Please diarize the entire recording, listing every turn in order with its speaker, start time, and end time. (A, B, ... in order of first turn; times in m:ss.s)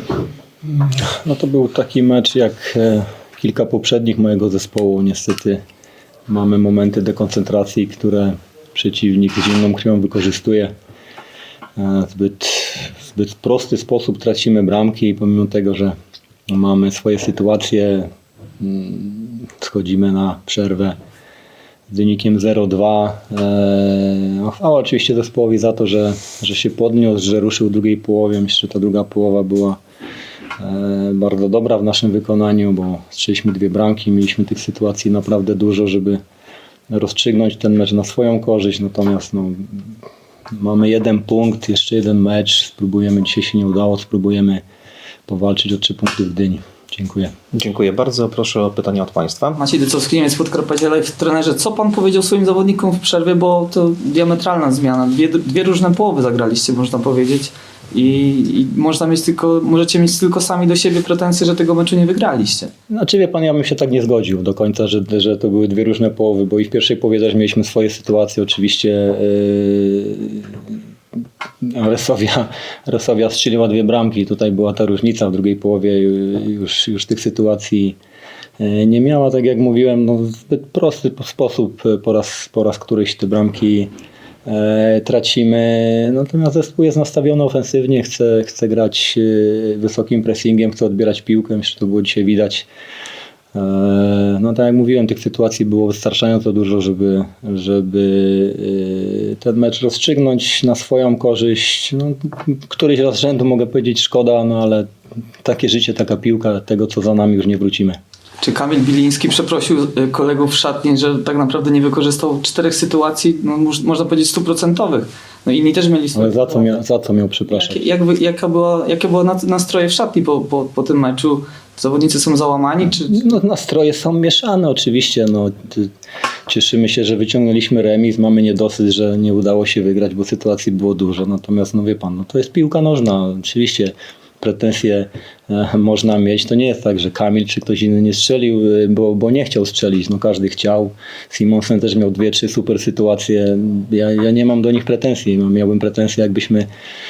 0:00.6-0:05.6 A
0:06.3-0:10.7 A
0:11.8-0:15.9 A
0:16.5-0:21.0 A
0:21.9-0:29.8 A
0:30.6-0:36.2 A
0:36.9-0:39.9 A
0:40.5-0:44.6 A
0:45.3-0:47.3 A
0:47.5-0:49.6 B
0:49.6-1:02.7 C
1:02.9-1:10.6 A
1:11.6-1:18.0 A
1:18.6-1:23.9 A
1:24.4-1:32.7 A
1:33.5-1:44.9 A
1:45.4-1:48.0 A
1:48.4-1:56.8 C
1:56.1-1:57.8 A
1:57.4-2:03.2 C
2:03.0-2:05.9 A
2:06.5-2:26.7 A